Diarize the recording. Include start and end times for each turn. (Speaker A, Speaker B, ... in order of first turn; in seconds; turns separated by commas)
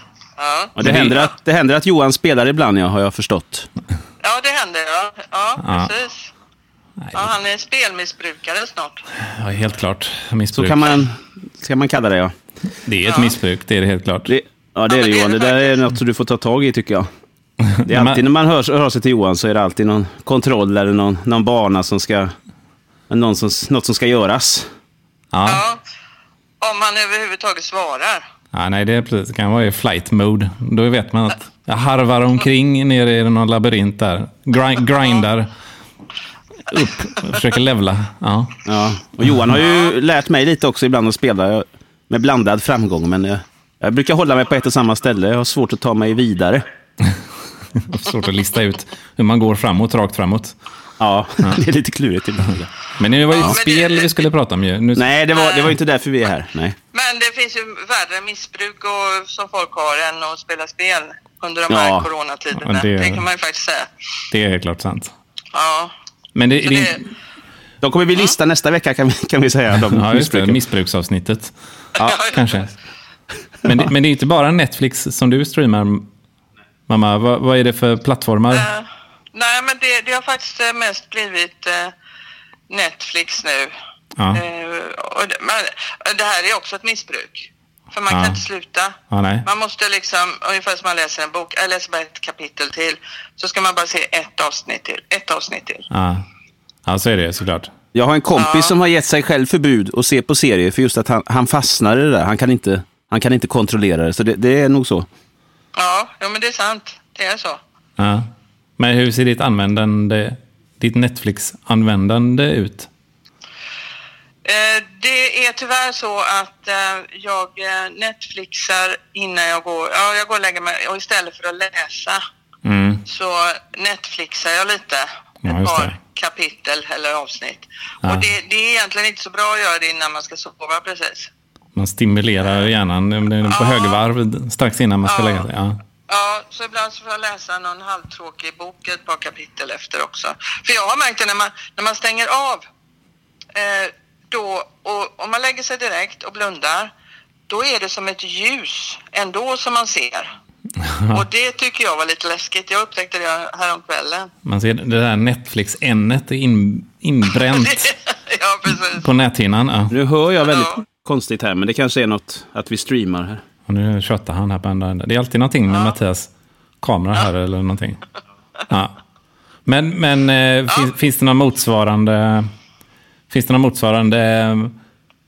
Speaker A: 0.4-1.3, Speaker B: 0.8-3.7, Speaker C: 0.8-1.2, Speaker A: 4.2-6.3, Speaker C: 5.6-5.9, Speaker C: 7.0-7.3, Speaker A: 7.1-9.1, Speaker C: 9.2-10.9, Speaker B: 10.5-12.3, Speaker C: 12.8-14.3, Speaker A: 13.0-13.3, Speaker B: 14.3-17.1, Speaker A: 14.9-15.8, Speaker C: 17.6-18.2, Speaker B: 17.8-22.3, Speaker B: 23.1-24.7, Speaker C: 25.3-25.6, Speaker A: 25.4-25.8, Speaker A: 26.6-28.2, Speaker C: 28.5-35.5, Speaker C: 36.7-38.7, Speaker B: 38.6-46.6, Speaker C: 39.2-39.5, Speaker C: 47.7-50.5, Speaker B: 51.0-52.7, Speaker C: 53.0-55.1, Speaker A: 53.3-54.2, Speaker B: 54.9-56.8, Speaker A: 55.3-55.8, Speaker A: 56.9-63.9, Speaker B: 61.7-62.1, Speaker C: 62.5-63.2, Speaker C: 64.3-65.1, Speaker A: 65.5-65.9, Speaker C: 66.3-67.1, Speaker A: 66.6-67.0, Speaker B: 67.8-70.6, Speaker C: 69.8-72.7, Speaker A: 72.0-72.5, Speaker C: 73.6-76.1, Speaker C: 76.9-78.7, Speaker A: 78.5-81.9, Speaker A: 82.7-83.7, Speaker C: 84.2-84.4, Speaker A: 84.3-95.9, Speaker C: 88.1-88.4, Speaker C: 89.1-89.5, Speaker C: 95.9-96.2, Speaker C: 96.8-97.7, Speaker B: 97.9-105.1, Speaker A: 98.3-98.7, Speaker A: 105.7-107.6, Speaker C: 108.0-112.9, Speaker A: 114.4-122.2, Speaker C: 122.6-123.0, Speaker A: 123.1-131.3, Speaker C: 125.4-125.9, Speaker C: 128.0-128.3, Speaker C: 131.8-135.8, Speaker A: 133.4-134.0, Speaker A: 135.1-135.5, Speaker A: 136.1-142.6, Speaker A: 143.5-146.9, Speaker A: 147.5-150.3, Speaker C: 150.8-151.2, Speaker A: 151.1-154.3, Speaker C: 154.4-157.9, Speaker A: 157.3-159.1, Speaker C: 158.9-159.9, Speaker B: 159.9-163.4, Speaker A: 160.5-160.8, Speaker C: 163.7-166.3, Speaker A: 165.7-165.9, Speaker C: 166.8-168.0, Speaker C: 168.7-168.9, Speaker C: 169.7-172.5, Speaker C: 173.3-174.7